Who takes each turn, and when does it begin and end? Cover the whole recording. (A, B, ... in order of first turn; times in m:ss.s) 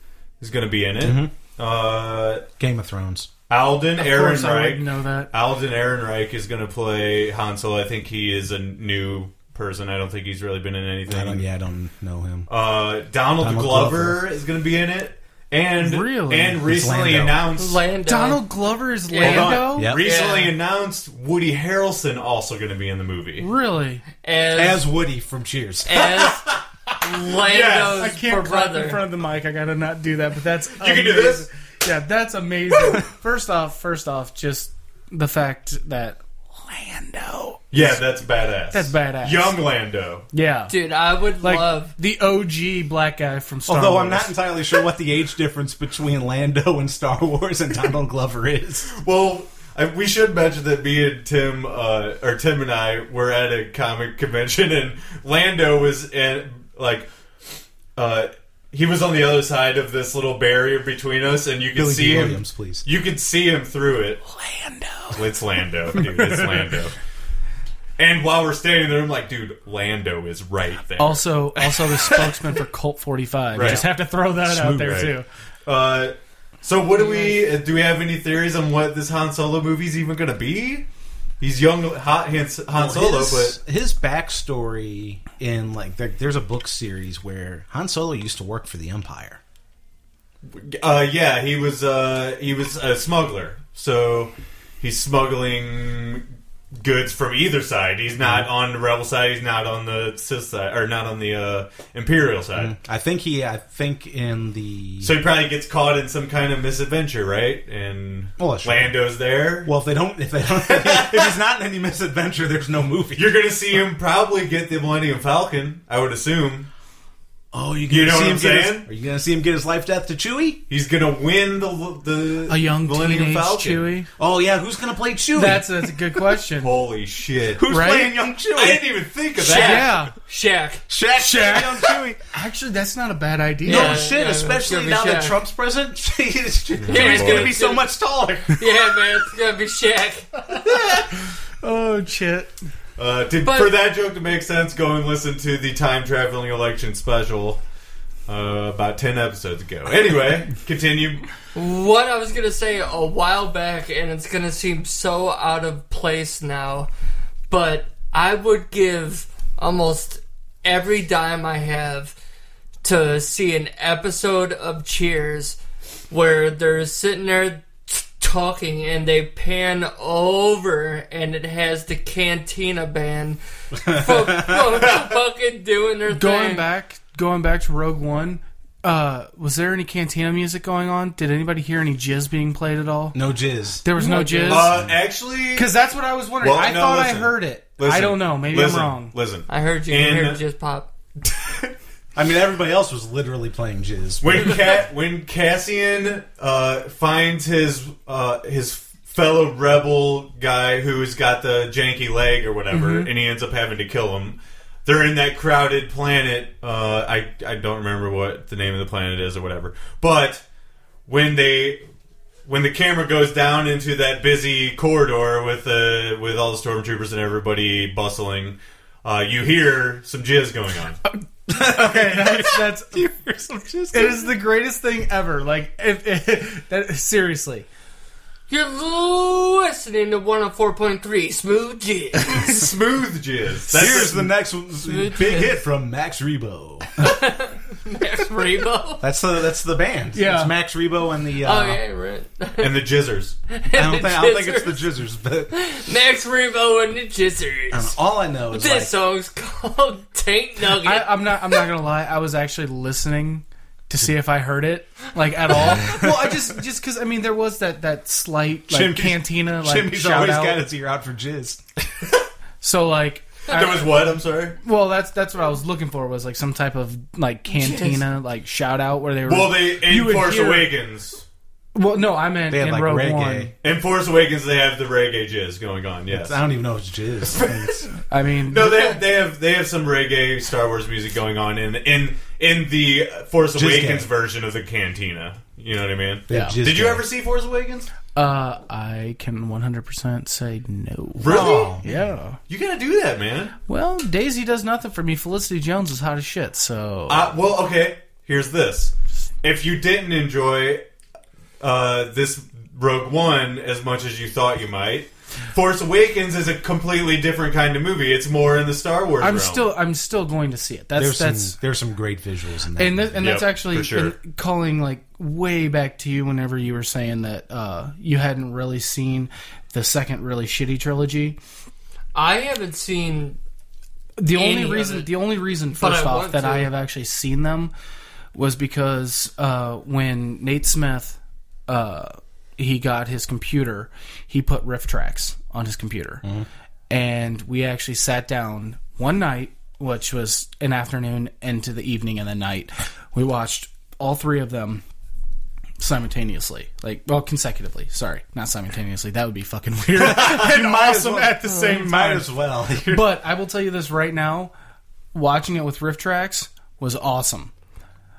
0:00.4-0:02.4 A
0:01.0-0:01.3 B
0:02.6-0:03.3 B
0:03.5-0:11.4 A
0:04.0-0:05.3 C
0:11.1-0:12.5 B
0:12.5-0:17.8 A
0:13.4-0:14.2 B
0:15.8-0:16.6 C
0:16.6-0:17.4 B
0:17.6-0:18.4 D
0:18.1-0:19.9 C
0:19.1-0:20.5 D
0:19.2-0:20.0 B
0:19.2-0:23.5 A
0:23.4-0:24.0 C
0:24.2-0:24.8 D
0:24.5-0:26.1 B
0:25.8-0:26.4 D
0:26.0-0:28.1 A
0:27.0-0:29.0 D
0:28.0-0:38.0 C
0:30.8-0:31.4 A
0:37.7-0:40.2 A
0:38.7-0:39.6 C
0:40.3-0:40.7 C
0:40.7-0:41.9 D
0:41.4-0:44.4 C
0:43.7-0:48.9 B
0:48.9-0:57.1 A
0:58.0-1:04.2 A
1:01.7-1:02.8 B
1:04.3-1:05.2 C
1:05.1-1:06.9 A
1:06.0-1:06.6 C
1:08.0-1:11.3 A
1:11.0-1:15.3 C
1:13.5-1:13.9 A
1:13.6-1:13.8 B
1:14.4-1:15.1 B
1:14.8-1:15.1 A
1:15.6-1:20.8 A
1:16.9-1:17.4 D
1:21.4-1:23.6 A
1:22.7-1:29.4 B
1:30.5-1:42.7 A
1:38.2-1:38.5 B
1:42.5-1:45.2 B
1:45.0-1:49.7 A
1:48.4-1:48.9 B
1:49.6-1:53.3 B
1:50.7-1:51.4 A
1:53.2-1:56.7 A
1:57.5-2:00.6 B
1:57.9-1:58.9 A
2:00.7-2:03.9 A
2:02.5-2:04.1 C
2:04.2-2:05.9 B
2:05.3-2:06.7 C
2:06.6-2:07.6 A
2:07.6-2:08.8 B
2:07.7-2:08.1 C
2:08.5-2:10.0 A
2:09.4-2:10.8 D
2:09.5-2:10.1 C
2:10.9-2:12.2 B
2:11.2-2:14.0 C
2:13.6-2:15.4 D
2:13.6-2:18.6 B
2:16.8-2:17.5 A
2:16.9-2:17.8 D
2:18.6-2:20.3 D
2:20.5-2:21.0 C
2:20.6-2:21.2 A
2:21.6-2:22.5 C
2:23.0-2:27.6 A
2:23.4-2:23.7 D
2:28.3-2:31.2 A
2:31.5-2:36.9 D
2:37.5-2:42.2 D
2:42.8-2:56.6 D
2:53.8-2:54.8 B
2:56.1-3:03.2 C
3:03.1-3:03.8 B
3:03.8-3:04.8 C
3:04.0-3:04.7 D
3:04.4-3:05.7 A
3:04.7-3:05.0 B
3:05.5-3:09.1 C
3:06.4-3:10.4 A
3:09.5-3:10.9 D
3:11.2-3:11.7 A
3:12.1-3:14.6 B
3:14.2-3:30.4 A
3:22.7-3:23.1 C
3:31.1-3:31.8 A
3:32.4-3:41.0 A
3:41.5-3:43.0 C
3:41.5-3:44.3 B
3:43.9-3:47.7 C
3:48.5-3:52.5 D
3:52.3-3:54.3 A
3:53.7-3:57.0 B
3:53.7-3:54.2 C
3:54.8-3:55.6 D
3:57.0-3:59.0 D
3:59.0-4:01.8 B
4:00.1-4:00.5 C
4:01.4-4:02.8 D
4:02.6-4:03.4 A
4:03.5-4:04.9 D
4:03.7-4:05.5 B
4:05.5-4:07.9 D
4:07.7-4:08.9 B
4:08.5-4:11.6 D
4:10.8-4:20.6 C
4:15.6-4:15.9 D
4:15.8-4:16.4 B
4:18.7-4:21.6 B
4:22.6-4:24.0 C
4:23.5-4:24.6 A
4:24.6-4:30.7 C
4:27.5-4:28.0 D
4:29.3-4:31.2 A
4:31.7-4:33.5 C
4:32.5-4:33.5 B
4:33.6-4:36.4 A
4:36.1-4:37.9 B
4:37.4-4:37.7 A
4:38.1-4:39.0 C
4:38.5-4:47.9 A
4:43.5-4:44.1 B
4:46.3-4:47.0 B
4:48.1-4:52.4 C
4:51.2-4:51.8 A
4:51.2-4:52.0 B
4:52.5-4:53.5 A
4:53.7-4:57.3 C
4:57.1-5:00.8 A
5:01.6-5:09.7 A
5:09.2-5:11.6 C
5:11.0-5:13.2 B
5:12.8-5:21.4 C
5:13.2-5:14.1 A
5:22.1-5:23.4 D
5:24.2-5:27.7 C
5:24.3-5:25.1 D
5:25.7-5:26.7 D
5:28.3-5:36.2 C
5:36.9-5:44.8 C
5:45.8-5:54.5 C
5:50.0-5:53.1 B
5:55.1-5:57.5 C